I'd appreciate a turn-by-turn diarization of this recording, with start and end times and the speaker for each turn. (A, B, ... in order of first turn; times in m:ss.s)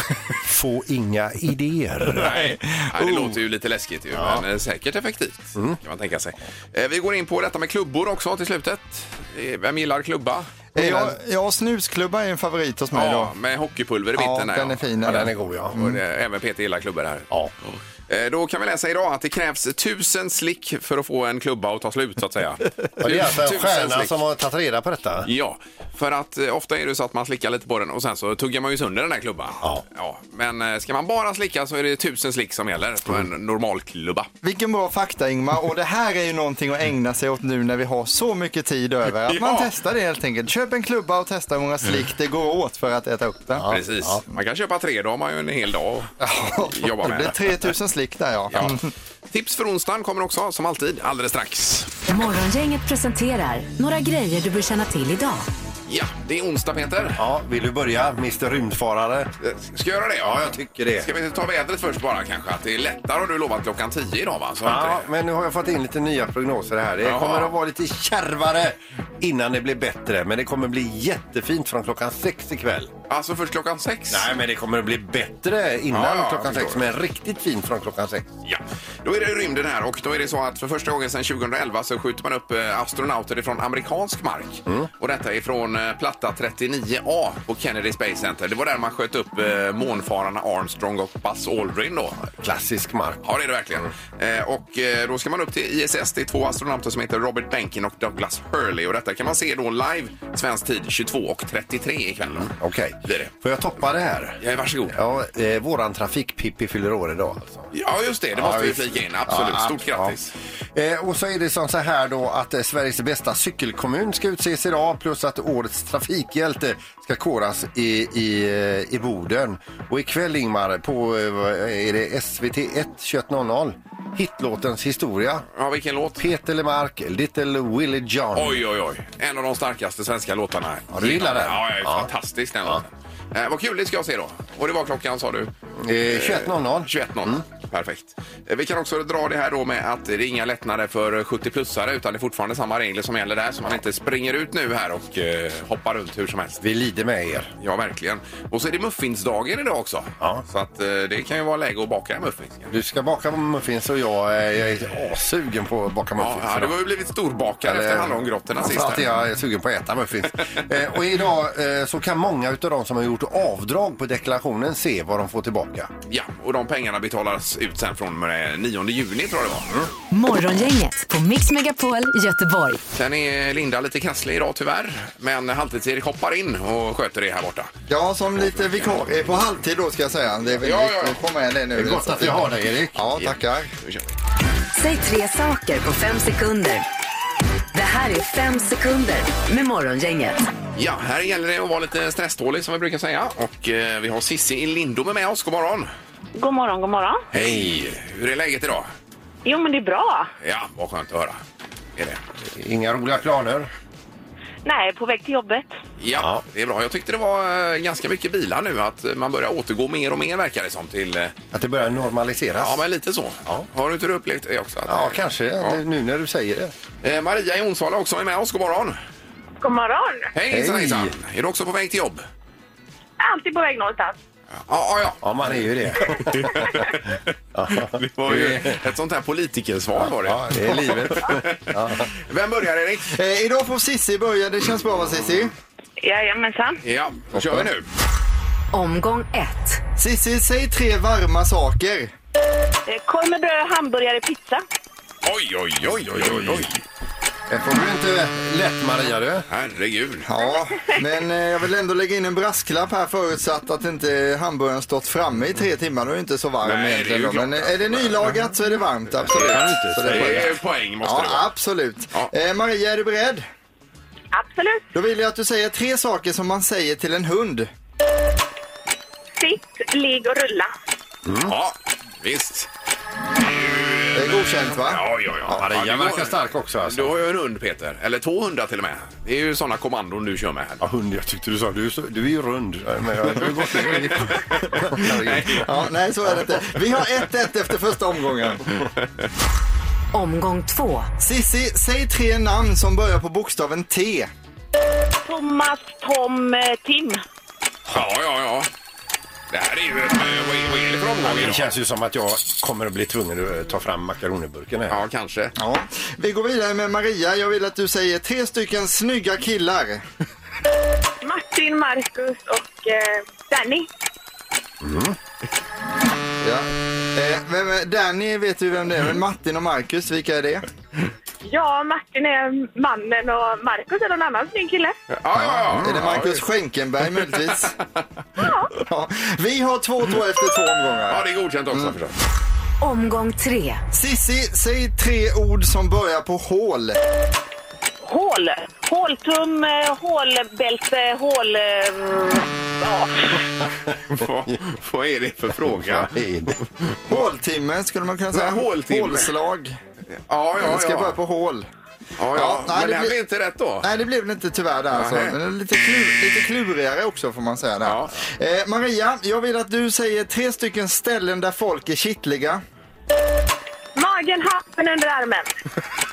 0:00.4-0:02.6 A
0:02.1-0:11.1 B
0:04.1-0:04.4 A
0:10.7-0:13.3 C
0:12.9-0:24.1 B
0:14.2-0:15.9 C
0:15.0-0:15.8 A
0:23.0-0:25.3 A
0:25.2-0:34.3 B
0:34.4-0:43.7 C
0:39.3-0:39.7 B
0:43.6-0:44.2 A
0:43.7-0:46.1 B
0:46.2-0:48.9 C
0:46.6-0:47.5 B
0:48.5-0:48.8 B
0:49.3-0:51.9 B
0:52.1-0:55.5 D
0:55.9-0:57.2 B
0:57.1-0:59.3 A
0:59.4-1:05.1 B
1:00.2-1:01.1 A
1:04.6-1:12.9 A
1:07.0-1:07.5 B
1:13.1-1:14.3 B
1:14.1-1:18.4 A
1:15.9-1:16.8 B
1:18.4-1:32.3 B
1:32.3-1:33.2 A
1:33.2-1:42.5 B
1:42.4-1:47.7 A
1:43.0-1:43.3 B
1:44.4-1:44.9 B
1:47.7-1:50.3 B
1:48.3-1:50.1 A
1:50.7-2:05.4 A
2:05.5-2:06.2 B
2:06.2-2:08.6 A
2:08.3-2:15.5 B
2:10.9-2:12.1 A
2:15.8-2:17.4 A
2:16.1-2:26.6 B
2:26.6-2:27.5 A
2:27.6-2:32.7 B
2:30.2-2:30.4 A
2:32.7-2:36.7 A
2:36.2-2:39.1 B
2:37.6-2:45.9 A
2:46.1-2:49.7 B
2:50.1-2:52.8 D
2:52.9-2:57.7 B
2:57.9-3:02.4 C
3:00.6-3:01.2 B
3:01.8-3:03.0 A
3:02.9-3:03.7 C
3:03.1-3:04.0 B
3:04.7-3:06.9 D
3:07.7-3:10.4 D
3:10.8-3:15.9 B
3:16.4-3:17.2 E
3:17.3-3:18.9 B
3:19.4-3:20.3 E
3:20.4-3:21.4 B
3:22.4-3:23.7 A
3:24.6-3:25.7 E
3:26.0-3:31.3 B
3:26.1-3:26.4 A
3:31.5-3:32.8 A
3:32.6-3:35.8 B
3:34.8-3:36.7 A
3:37.0-3:39.0 B
3:39.6-3:40.3 E
3:40.3-3:42.2 B
3:40.5-3:41.1 A
3:43.2-3:44.2 E
3:44.6-3:45.2 B
3:45.2-3:46.8 A
3:46.0-3:47.0 B
3:47.5-3:48.8 A
3:47.8-3:53.1 B
3:50.0-3:52.1 A
3:53.1-3:55.5 C
3:56.0-3:56.8 E
3:56.8-3:57.8 B
3:58.7-3:59.8 D
4:00.0-4:02.1 C
4:02.9-4:04.6 E
4:05.2-4:06.8 B
4:06.2-4:06.7 A
4:07.5-4:09.4 A
4:09.5-4:10.3 B
4:10.2-4:23.4 C
4:16.6-4:18.4 B
4:19.2-4:21.5 B
4:19.2-4:20.6 A
4:24.3-4:24.9 E
4:24.9-4:27.7 C
4:29.4-4:30.7 E
4:31.2-4:31.6 A
4:31.4-4:32.7 B
4:33.4-4:40.8 B
4:34.1-4:35.0 C
4:35.5-4:37.2 A
4:40.8-4:45.6 A
4:43.4-4:45.7 B
4:45.0-4:48.6 C
4:50.1-4:51.1 D
4:51.2-4:54.3 C
4:55.2-4:57.2 E
4:57.9-4:58.7 B
4:59.5-5:01.7 B
5:01.2-5:05.0 A
5:04.9-5:05.5 B
5:05.6-5:10.0 C
5:11.2-5:13.9 E
5:14.8-5:15.2 A
5:16.4-5:20.6 C
5:21.4-5:25.0 E
5:25.1-5:26.4 B
5:25.4-5:26.1 A
5:25.8-5:27.7 C
5:28.4-5:28.7 E
5:28.7-5:31.9 C
5:31.1-5:32.1 B
5:32.8-5:33.8 D
5:33.9-5:37.0 C
5:38.0-5:43.4 E
5:44.1-5:46.1 B
5:45.7-5:46.6 A
5:46.9-5:47.2 B
5:47.1-5:49.8 C
5:48.3-5:49.3 B
5:50.3-5:51.2 B
5:50.6-5:51.6 C
5:52.2-5:53.9 B
5:52.3-5:53.2 C
5:53.8-6:02.6 C
5:54.9-5:55.4 B
5:57.8-5:58.1 B
6:04.0-6:05.5 E